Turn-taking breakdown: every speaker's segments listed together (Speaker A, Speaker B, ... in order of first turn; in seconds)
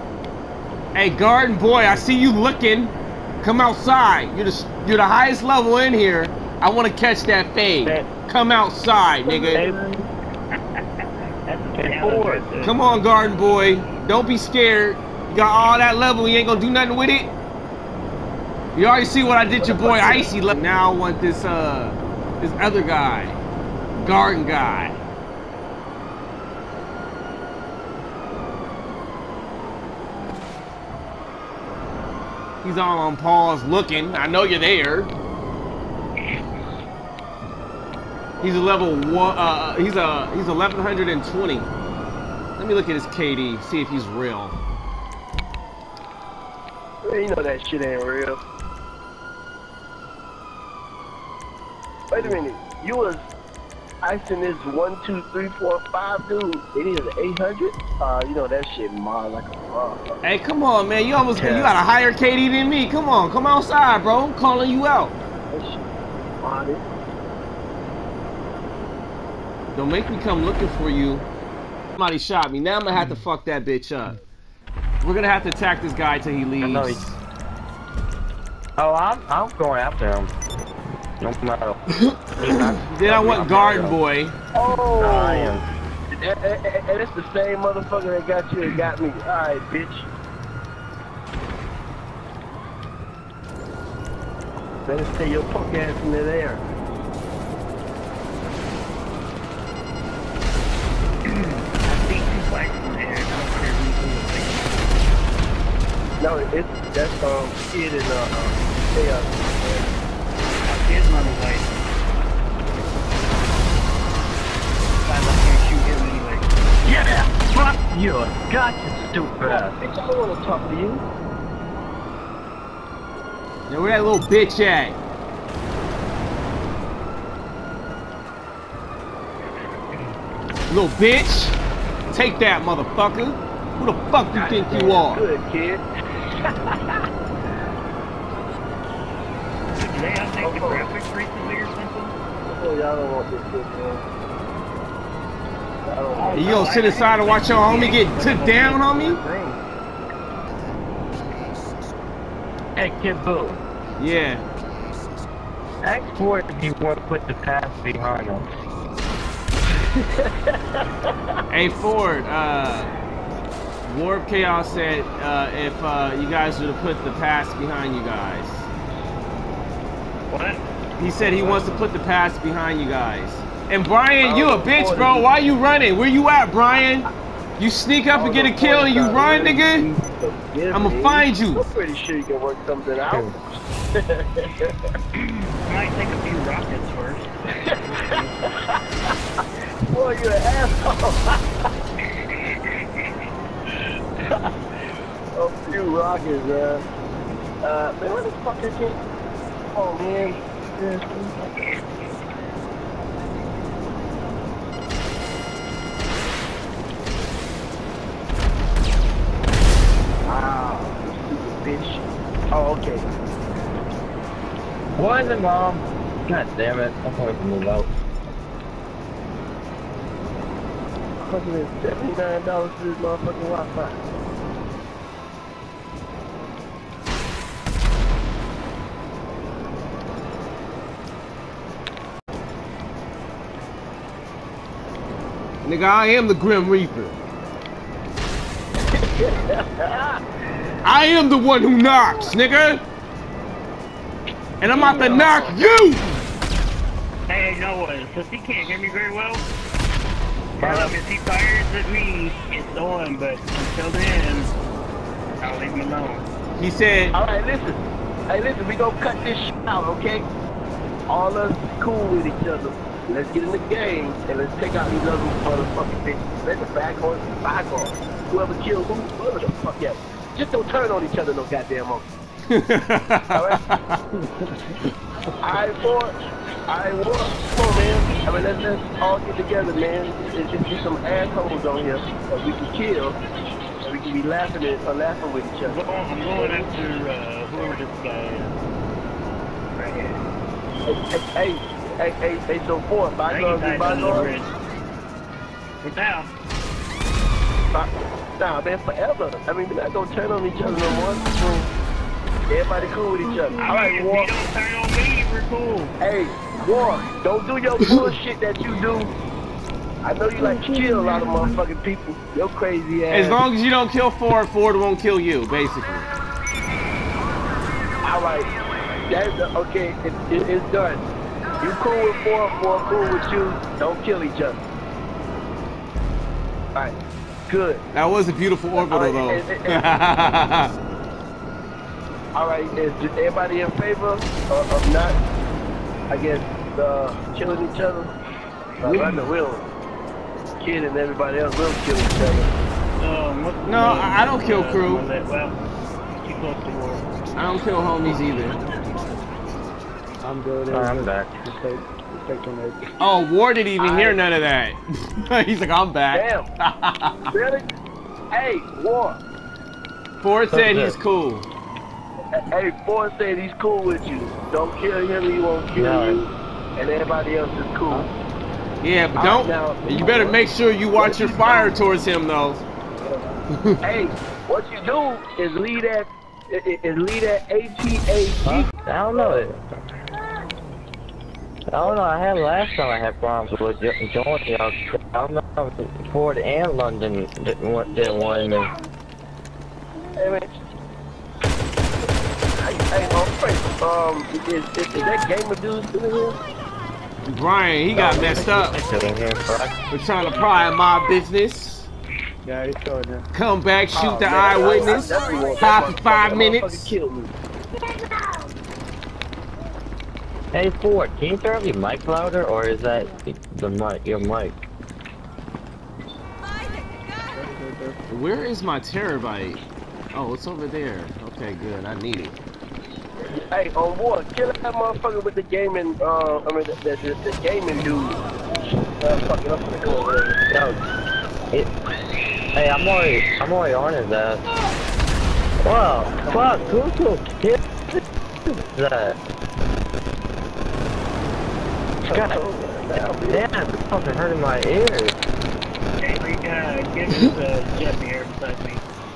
Speaker A: 0.9-9.6, 12.6-17.3, 18.8-23.4, 24.0-25.0, 32.6-35.1, 38.4-41.7, 42.6-44.6, 60.2-65.2, 69.8-71.3, 72.0-74.2, 75.0-77.0, 82.5-84.3, 123.7-125.0, 130.7-131.6, 132.1-135.2, 146.3-149.2, 154.0-154.4, 161.5-162.9, 163.8-168.7, 171.0-179.9, 180.7-181.6, 235.6-237.2, 240.8-242.8, 244.6-246.1, 256.6-257.1, 272.5-274.0, 313.1-316.1, 327.9-330.7, 338.9-339.2, 343.7-345.0, 347.4-348.6, 353.0-357.3, 360.2-361.5, 368.8-372.6, 373.5-373.8, 397.2-398.8, 399.9-401.9, 403.3-406.9, 418.1-422.4
Speaker B: 7.8-8.1, 9.5-10.0, 11.7-12.4, 76.6-77.1, 78.8-80.3, 81.2-84.0, 85.0-85.7, 116.8-119.8, 152.8-153.6, 155.8-158.5, 215.0-217.9, 250.6-250.9, 350.7-351.4, 360.5-361.0, 365.8-366.2, 378.4-379.6, 381.7-388.7, 397.9-399.8, 410.5-414.6, 430.5-430.8, 432.5-434.4, 435.6-439.2, 442.1-442.4, 443.3-445.2
Speaker C: 9.2-10.0, 19.6-20.3, 47.0-48.4, 52.1-53.2, 54.0-60.2, 65.5-65.8, 66.4-66.8, 84.5-85.6, 86.1-90.1, 94.9-96.6, 106.2-109.9, 119.5-121.0, 134.3-135.8, 136.5-137.0, 140.4-140.9, 142.4-144.1, 145.9-146.9, 174.2-175.3, 178.1-183.4, 183.9-184.8, 187.7-188.2, 189.9-191.4, 194.2-194.5, 195.3-196.8, 197.6-199.0, 199.7-201.7, 210.3-213.1, 221.2-224.0, 238.9-240.2, 257.1-260.3, 261.1-272.1, 273.3-273.6, 275.4-276.2, 276.7-283.2, 283.8-286.7, 290.9-294.3, 297.7-301.7, 302.5-304.4, 306.0-309.1, 310.0-313.4, 318.0-318.5, 319.1-321.0, 321.6-324.6, 327.5-327.8, 328.8-329.8, 332.3-335.1, 336.1-338.1, 338.8-339.6, 340.6-342.5, 353.8-354.2, 356.1-356.5, 357.3-357.6, 358.3-359.2, 362.3-368.1, 369.2-370.4, 371.0-371.7, 373.0-373.3, 373.8-379.5, 388.0-388.5, 390.1-390.6, 392.6-396.4, 404.0-407.3, 423.3-428.2, 429.0-430.4, 436.1-436.8, 442.0-443.4
Speaker D: 10.5-12.8, 101.2-104.8, 110.7-111.8, 115.0-116.5, 139.8-142.1, 146.2-149.6, 170.3-170.6, 171.2-171.6, 185.2-188.5, 201.4-201.8, 244.9-245.2, 247.3-249.4, 250.6-254.5, 255.4-256.3, 285.6-288.6, 289.7-290.2, 293.3-294.5, 295.8-296.3, 303.5-305.9, 343.0-345.6, 346.2-347.1, 446.0-448.8
Speaker E: 350.2-352.8, 402.4-403.3, 417.4-417.9